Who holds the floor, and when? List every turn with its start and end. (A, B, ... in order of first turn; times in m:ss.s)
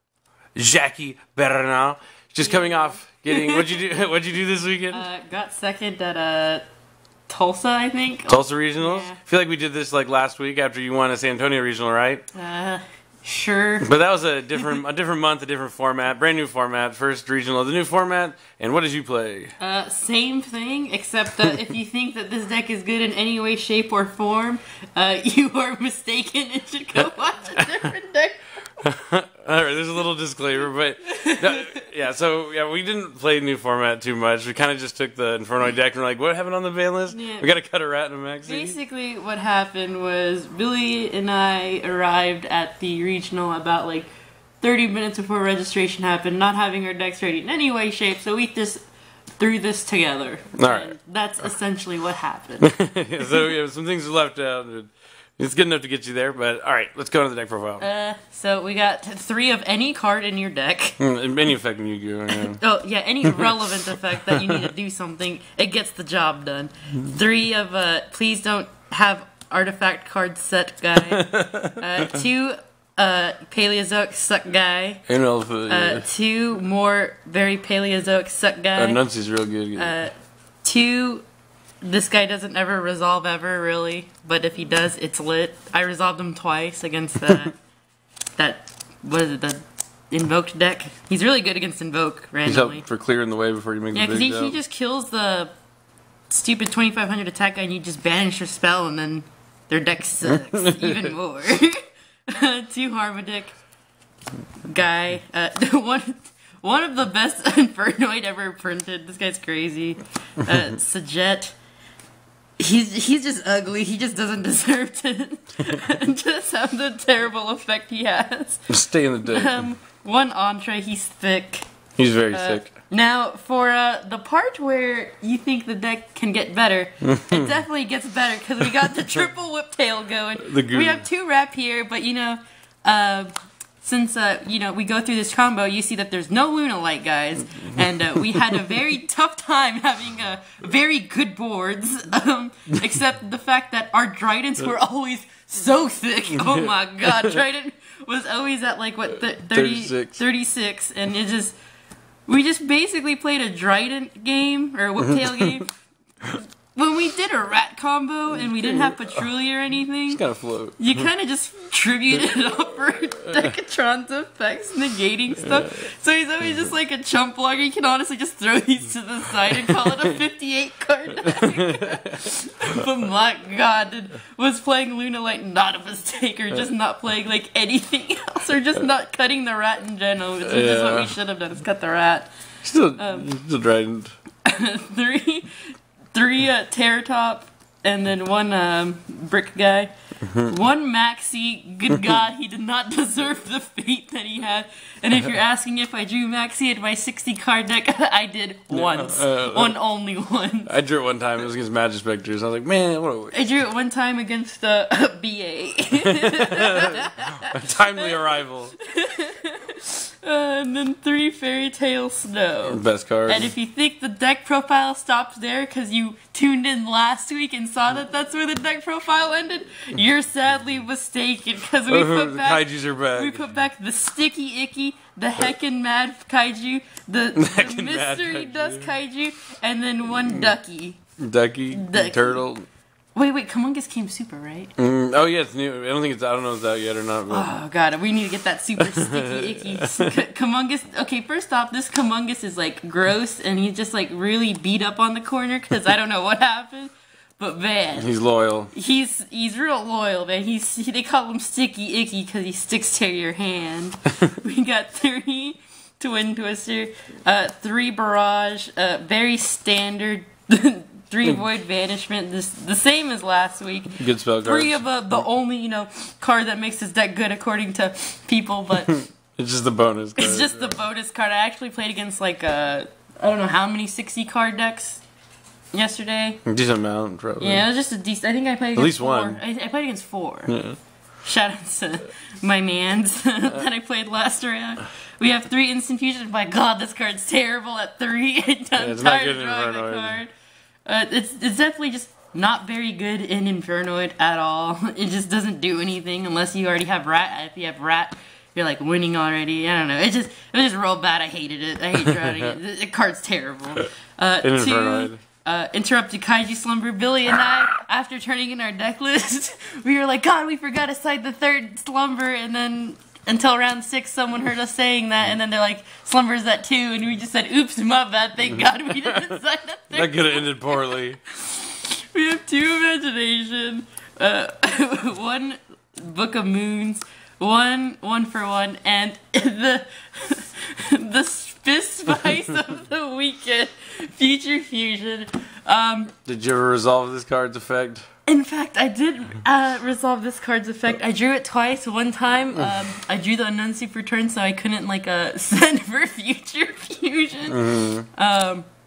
0:00.6-0:05.0 A
0:02.4-0:03.8 B
0:04.9-0:06.6 B
0:07.3-0:09.2 B
0:08.3-0:12.2 A
0:12.3-0:13.9 B
0:13.8-0:19.5 A
0:19.6-0:28.4 B
0:28.8-0:38.8 A
0:31.0-0:31.8 B
0:37.1-0:37.5 B
0:38.4-0:44.1 B
0:44.6-0:48.8 B
0:49.4-0:53.5 B
0:50.6-0:51.0 A
0:52.6-0:57.8 A
0:57.8-1:01.0 B
1:01.0-1:02.6 A
1:02.3-1:15.0 B
1:03.2-1:03.5 A
1:04.2-1:04.6 A
1:11.1-1:12.2 A
1:15.1-1:16.1 A
1:15.7-1:19.0 B
1:18.8-1:20.0 A
1:19.7-1:20.1 B
1:20.6-1:21.2 B
1:21.8-1:27.5 B
1:28.4-1:32.8 B
1:32.4-1:34.6 A
1:33.9-1:35.5 B
1:36.3-1:43.5 B
1:40.3-1:41.1 A
1:44.6-1:51.5 B
1:52.6-1:58.7 B
1:58.7-1:59.7 A
1:59.2-2:01.7 B
2:02.0-2:02.7 A
2:02.3-2:13.3 B
2:07.0-2:07.5 A
2:10.4-2:11.0 A
2:13.8-2:31.6 B
2:26.3-2:27.4 A
2:29.5-2:30.2 A
2:32.3-2:35.7 B
2:35.0-2:35.6 A
2:36.2-2:40.2 B
2:38.4-2:39.2 A
2:40.1-2:41.0 A
2:40.8-3:02.3 B
2:51.3-2:52.2 A
3:00.4-3:01.1 A
3:02.6-3:04.1 A
3:03.0-3:03.3 B
3:04.4-3:20.7 B
3:18.7-3:19.8 A
3:20.7-3:23.4 A
3:23.3-3:28.1 B
3:26.0-3:28.7 A
3:28.8-3:51.0 B
3:32.6-3:33.5 A
3:41.9-3:43.4 A
3:47.4-3:48.9 A
3:51.2-3:52.6 A
3:51.7-3:52.4 B
3:53.1-3:54.7 B
3:54.8-3:57.5 A
3:57.3-4:08.1 B
3:58.8-4:00.1 A
4:08.0-4:08.7 A
4:08.7-4:29.0 B
4:23.9-4:24.8 A
4:29.4-4:30.8 A
4:30.2-4:35.0 B
4:35.7-4:36.4 B
4:36.4-4:37.6 A
4:37.4-4:40.6 B
4:38.8-4:39.4 A
4:40.5-4:40.8 A
4:41.2-4:50.3 B
4:48.8-4:50.2 A
4:50.8-5:36.1 B
5:04.4-5:05.2 A
5:19.9-5:21.2 A
5:36.2-5:38.0 A
5:38.2-5:48.6 B
5:47.5-5:48.1 A